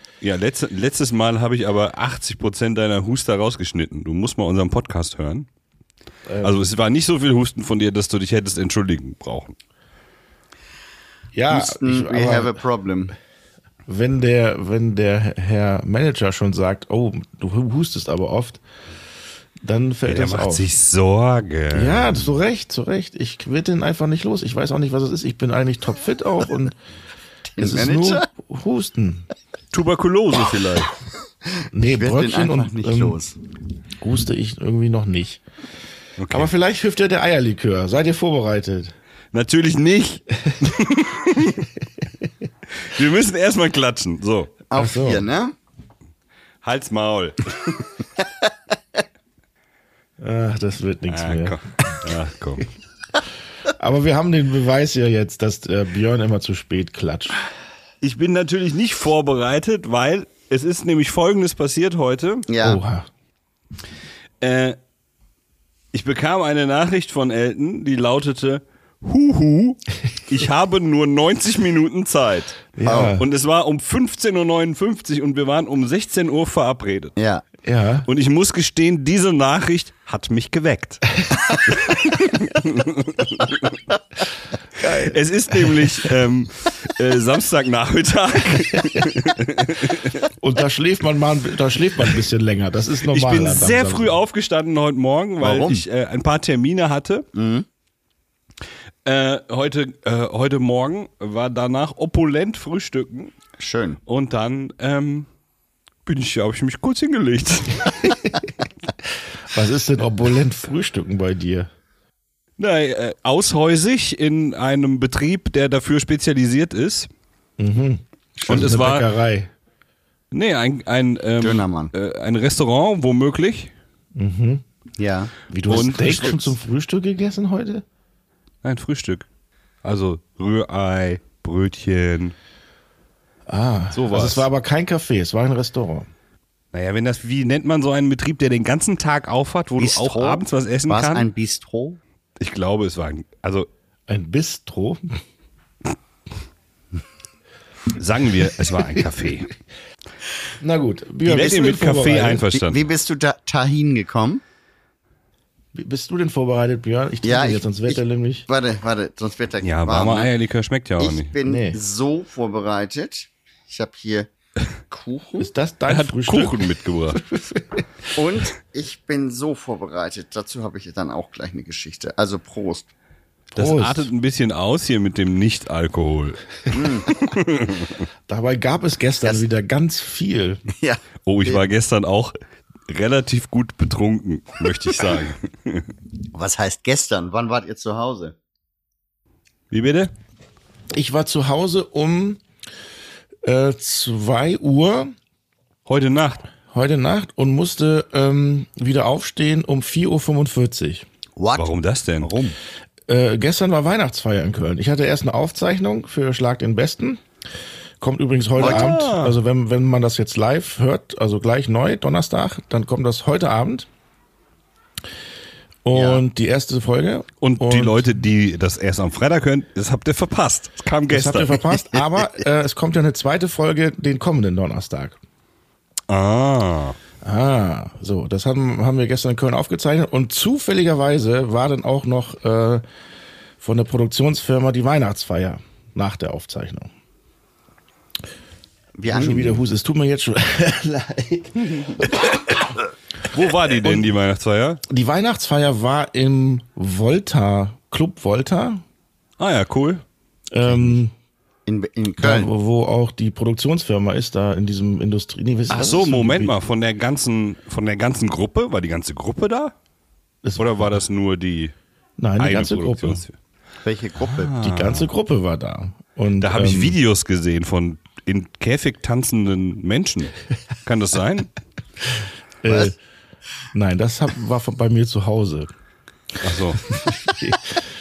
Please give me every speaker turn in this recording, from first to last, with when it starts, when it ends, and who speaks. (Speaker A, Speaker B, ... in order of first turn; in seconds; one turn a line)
Speaker A: 0.2-5.5
Speaker B: 6.3-6.6
Speaker A: 6.4-9.6
Speaker B: 11.3-12.6
Speaker C: 11.5-13.1
Speaker B: 13.9-18.6
Speaker B: 19.6-20.7
Speaker A: 20.1-22.3
Speaker B: 21.7-26.8
Speaker C: 27.6-28.3
Speaker B: 27.6-29.2
Speaker A: 29.7-30.9
Speaker B: 31.7-33.2
Speaker C: 31.8-33.4
Speaker B: 34.0-35.4
Speaker A: 36.2-36.5
Speaker B: 36.3-38.9
Speaker A: 39.3-41.7
Speaker A: 42.8-44.6
Speaker C: 44.7-45.5
Speaker B: 44.8-45.3
Speaker A: 46.6-47.9
Speaker B: 50.2-51.6
Speaker A: 51.1-52.7
Speaker B: 53.7-57.4
Speaker A: 58.0-62.5
Speaker C: 62.5-62.8
Speaker B: 62.6-63.1
Speaker A: 64.4-64.8
Speaker A: 65.9-77.2
Speaker B: 72.8-73.2
Speaker C: 72.9-73.2
Speaker C: 77.2-77.4
Speaker B: 77.6-78.1
Speaker A: 78.1-83.8
Speaker B: 84.8-85.9
Speaker A: 84.8-90.2
Speaker B: 90.4-94.2
Speaker A: 93.1-97.2
Speaker C: 95.4-95.8
Speaker C: 97.3-97.7
Speaker A: 99.0-103.3
Speaker C: 103.6-104.0
Speaker A: 104.1-105.3
Speaker A: 106.1-108.2
Speaker B: 109.5-111.7
Speaker A: 112.6-117.1
Speaker B: 117.6-119.5
Speaker A: 118.5-119.1
Speaker A: 120.3-123.7
Speaker C: 121.4-121.9
Speaker B: 124.2-124.6
Speaker C: 125.0-126.1
Speaker B: 125.5-127.8
Speaker A: 125.7-126.5
Speaker A: 128.6-129.2
Speaker A: 129.8-132.3
Speaker B: 133.5-136.1
Speaker A: 133.9-134.4
Speaker A: 136.7-141.3
Speaker C: 139.8-142.0
Speaker A: 142.4-143.7
Speaker B: 144.1-145.2
Speaker A: 147.9-149.5
Speaker B: 150.6-152.5
Speaker A: 151.2-152.8
Speaker C: 152.5-154.4
Speaker B: 155.8-158.4
Speaker C: 157.2-160.3
Speaker A: 159.6-161.3
Speaker C: 161.0-164.3
Speaker B: 161.4-161.8
Speaker C: 164.9-165.5
Speaker B: 165.4-168.1
Speaker A: 165.9-167.2
Speaker C: 168.2-172.9
Speaker A: 173.5-176.4
Speaker B: 173.6-174.1
Speaker C: 176.7-177.1
Speaker A: 177.1-177.9
Speaker B: 178.3-180.6
Speaker C: 180.8-181.6
Speaker A: 181.2-182.3
Speaker A: 182.9-185.9
Speaker C: 186.3-188.4
Speaker A: 189.7-190.1
Speaker B: 190.9-192.4
Speaker B: 193.4-195.2
Speaker A: 195.9-196.4
Speaker B: 196.7-201.1
Speaker C: 201.4-201.7
Speaker A: 201.6-202.3
Speaker C: 202.2-202.6
Speaker B: 203.1-207.2
Speaker B: 208.0-213.9
Speaker C: 208.6-208.9
Speaker A: 208.6-209.3
Speaker B: 215.8-218.2
Speaker C: 215.9-216.2
Speaker A: 217.4-221.6
Speaker B: 221.1-225.2
Speaker C: 221.9-222.2
Speaker A: 226.1-226.9
Speaker B: 227.2-232.8
Speaker B: 233.6-236.9
Speaker C: 238.9-239.6
Speaker B: 239.1-242.3
Speaker A: 241.7-242.1
Speaker A: 243.3-244.8
Speaker B: 243.7-244.1
Speaker B: 244.9-248.8
Speaker A: 249.4-250.0
Speaker B: 250.5-251.1
Speaker C: 251.7-252.5
Speaker B: 252.2-256.6
Speaker A: 255.7-259.7
Speaker A: 260.6-261.7
Speaker B: 262.2-263.2
Speaker A: 262.4-263.3
Speaker C: 263.8-264.6
Speaker A: 264.2-265.1
Speaker B: 264.6-267.0
Speaker A: 266.4-271.5
Speaker B: 272.6-272.9
Speaker C: 272.7-272.9
Speaker B: 273.7-275.7
Speaker A: 276.4-276.8
Speaker B: 276.9-277.9